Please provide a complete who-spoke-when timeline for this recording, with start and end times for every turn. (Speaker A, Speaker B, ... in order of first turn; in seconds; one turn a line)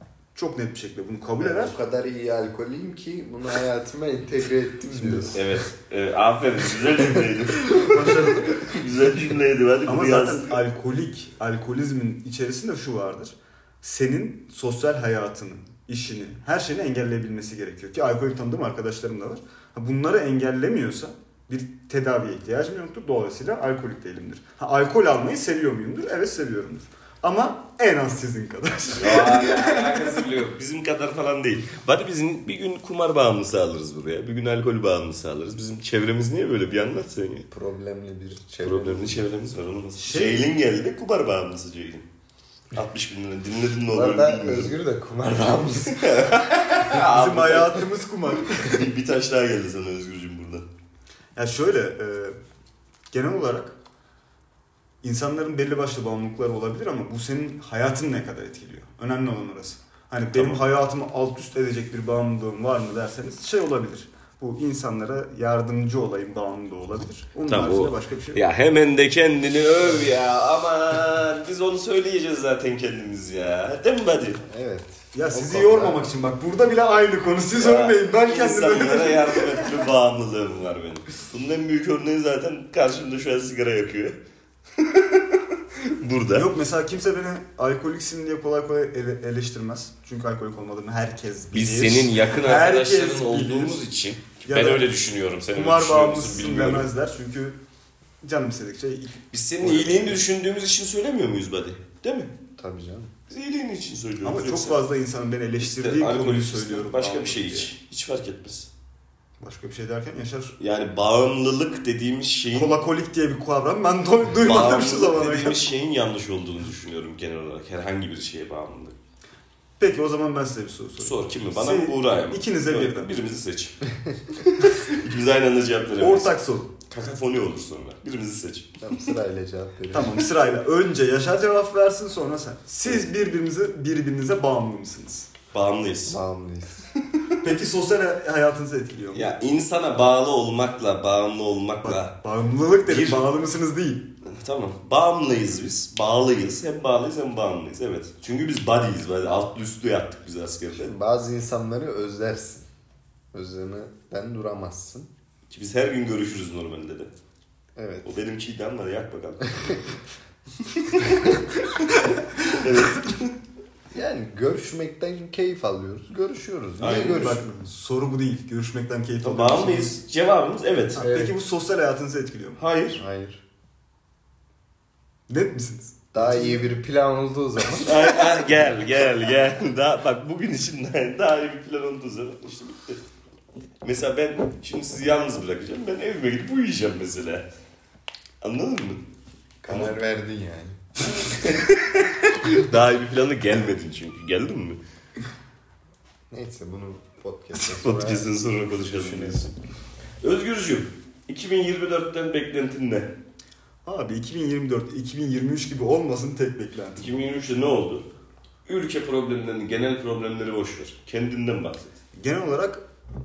Speaker A: 0.3-1.8
Speaker B: 1.4-5.4
Speaker C: 5.3-10.5
Speaker A: 7.8-8.7
Speaker A: 9.9-30.2
Speaker C: 29.0-37.5
Speaker B: 37.5-39.2
Speaker C: 38.6-42.1
Speaker A: 40.0-40.5
Speaker C: 42.7-44.8
Speaker B: 43.9-46.1
Speaker C: 45.4-47.9
Speaker A: 46.9-48.8
Speaker C: 48.4-50.7
Speaker A: 51.4-52.4
Speaker A: 53.1-53.8
Speaker A: 55.0-68.4
Speaker C: 60.3-60.6
Speaker C: 67.5-74.4
Speaker B: 74.4-76.1
Speaker A: 75.1-79.8
Speaker C: 77.5-84.2
Speaker C: 84.8-86.5
Speaker A: 86.3-93.8
Speaker C: 91.5-96.9
Speaker A: 94.5-94.9
Speaker A: 95.5-97.6
Speaker A: 98.2-100.2
Speaker C: 99.3-102.3
Speaker B: 102.6-103.1
Speaker C: 103.3-104.8
Speaker A: 104.2-107.7
Speaker C: 105.6-108.7
Speaker A: 109.4-110.5
Speaker C: 110.6-112.7
Speaker A: 112.5-115.7
Speaker C: 114.4-119.0
Speaker A: 119.8-123.2
Speaker C: 121.0-123.8
Speaker C: 124.5-126.3
Speaker A: 126.0-126.7
Speaker C: 126.9-128.8
Speaker B: 128.8-130.3
Speaker A: 129.9-135.3
Speaker C: 135.5-136.2
Speaker B: 136.1-136.9
Speaker A: 137.4-139.3
Speaker C: 139.1-142.2
Speaker A: 141.8-144.1
Speaker C: 142.9-143.3
Speaker C: 144.2-150.9
Speaker B: 150.8-152.7
Speaker B: 153.3-155.1
Speaker C: 155.5-157.1
Speaker B: 157.8-158.1
Speaker C: 158.0-159.9
Speaker C: 160.7-161.4
Speaker C: 162.5-163.3
Speaker B: 163.9-167.5
Speaker C: 166.8-167.4
Speaker A: 166.8-170.0
Speaker C: 169.2-171.1
Speaker A: 171.0-172.6
Speaker B: 171.0-171.3
Speaker C: 172.6-173.0
Speaker B: 172.9-173.4
Speaker A: 175.3-176.8
Speaker B: 176.1-178.2
Speaker C: 177.8-183.0
Speaker C: 183.8-187.5
Speaker C: 188.4-189.1
Speaker B: 189.6-190.8
Speaker C: 189.7-189.9
Speaker C: 191.2-194.8
Speaker B: 196.3-199.4
Speaker C: 197.6-199.5
Speaker C: 200.2-203.1
Speaker A: 203.8-207.1
Speaker C: 207.0-208.1
Speaker C: 208.7-211.9
Speaker A: 212.1-212.8